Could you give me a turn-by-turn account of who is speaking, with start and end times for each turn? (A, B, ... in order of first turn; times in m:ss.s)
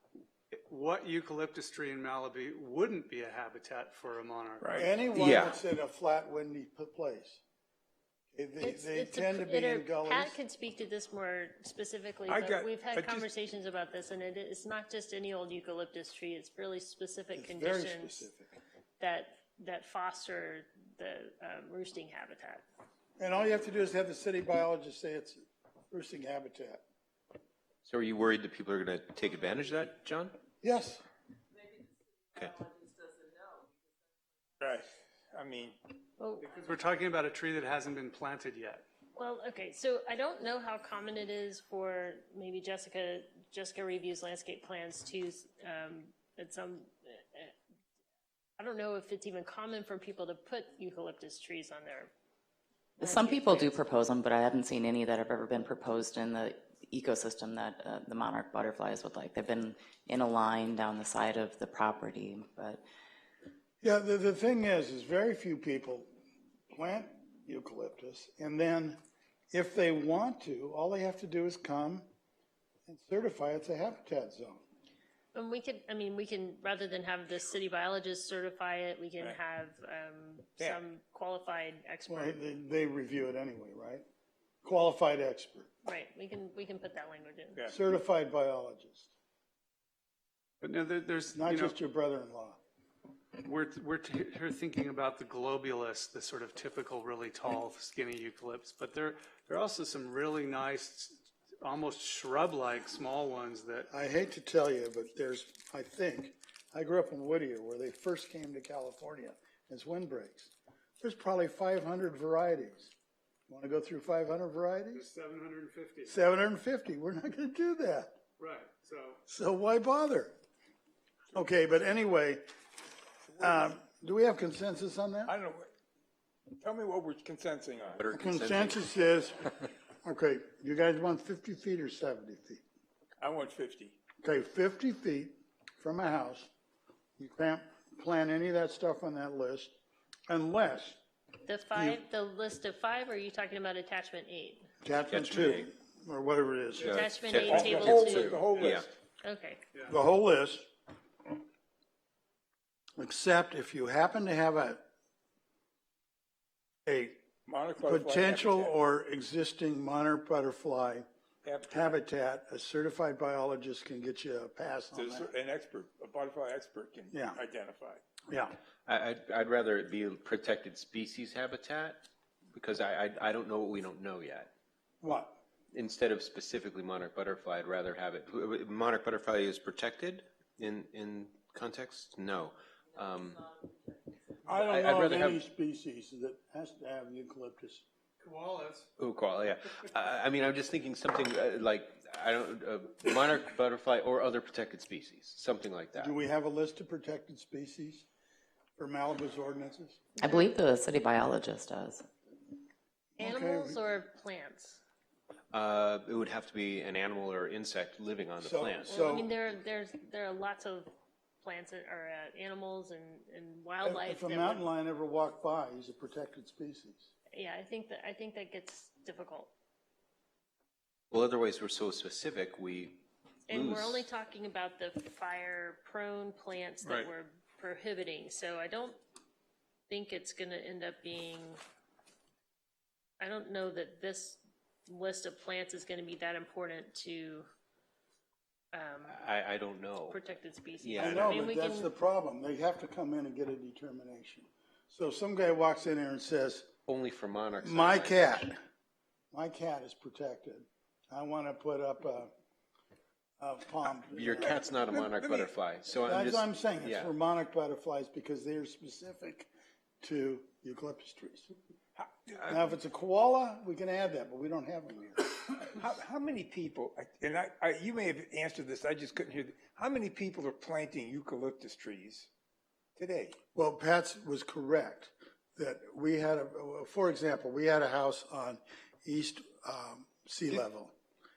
0:00.5-0:05.4 A
0:04.6-0:04.9 B
0:04.8-0:07.4 C
0:05.2-0:05.6 D
0:08.3-0:10.4 C
0:08.6-0:18.3 E
0:12.3-0:13.3 B
0:17.4-0:18.6 C
0:19.0-0:22.6 E
0:23.2-0:26.8 C
0:27.8-0:30.4 D
0:30.6-0:31.0 C
0:32.4-0:32.6 D
0:34.6-0:35.9 B
0:36.2-0:36.6 E
0:36.4-0:38.8 A
0:39.2-0:47.6 E
0:48.6-0:52.1 E
0:53.0-1:02.8 F
0:53.0-0:53.8 E
1:03.8-1:06.1 C
1:06.7-1:09.0 C
1:09.5-1:12.1 C
1:12.9-1:14.6 C
1:15.3-1:22.4 E
1:22.1-1:24.0 C
1:24.6-1:25.7 C
1:25.8-1:27.6 E
1:27.7-1:29.1 C
1:30.6-1:31.8 A
1:31.3-1:32.6 C
1:33.4-1:43.9 A
1:43.9-1:52.9 C
1:53.5-1:55.1 C
1:54.9-1:56.2 A
1:56.1-1:58.2 C
1:58.4-1:59.2 A
1:59.3-2:00.4 C
2:01.3-2:02.4 C
2:03.4-2:05.3 C
2:03.4-2:03.7 B
2:05.3-2:05.7 B
2:06.6-2:08.0 B
2:08.0-2:08.9 D
2:08.1-2:12.6 C
2:13.2-2:14.0 B
2:14.2-2:16.5 C
2:17.2-2:19.8 C
2:20.3-2:21.0 C
2:21.4-2:24.7 E
2:24.8-2:27.1 C
2:25.1-2:25.7 D
2:26.8-2:28.9 D
2:26.9-2:28.5 E
2:27.4-2:28.9 B
2:29.2-2:29.6 E
2:29.9-2:30.7 C
2:33.0-2:34.8 C
2:36.9-2:37.2 C
2:37.5-2:38.8 B
2:37.8-2:41.0 C
2:41.4-2:42.0 B
2:41.7-2:45.3 C
2:44.9-2:48.0 B
2:47.1-2:47.4 C
2:48.3-2:48.6 C
2:48.9-2:54.5 D
2:55.0-2:55.4 C
2:55.7-3:03.5 D
3:04.5-3:05.4 D
3:04.5-3:07.8 C
3:08.2-3:08.9 A
3:09.0-3:16.2 D
3:16.0-3:18.1 C
3:18.8-3:20.0 C
3:20.2-3:22.1 F
3:23.2-3:23.8 C
3:23.2-3:24.8 E
3:25.5-3:29.0 D
3:28.4-3:29.3 C
3:28.9-3:30.9 E
3:31.4-3:34.6 E
3:33.8-3:37.1 C
3:37.3-3:39.5 E
3:41.1-3:44.1 D
3:43.5-3:49.0 E
3:46.8-3:47.1 B
3:49.9-3:51.6 E
3:53.2-3:57.5 E
3:58.7-3:59.2 E
3:59.1-4:00.2 D
4:00.1-4:01.9 E
4:00.8-4:01.5 D
4:01.0-4:06.7 C
4:06.9-4:08.5 D
4:07.6-4:08.6 C
4:09.3-4:12.3 C
4:13.4-4:14.6 C
4:14.0-4:17.1 D
4:16.0-4:19.5 C
4:20.0-4:21.5 C
4:22.0-4:22.4 B
4:22.5-4:25.3 C
4:25.4-4:32.3 B
4:33.0-4:33.4 B
4:33.6-4:40.9 C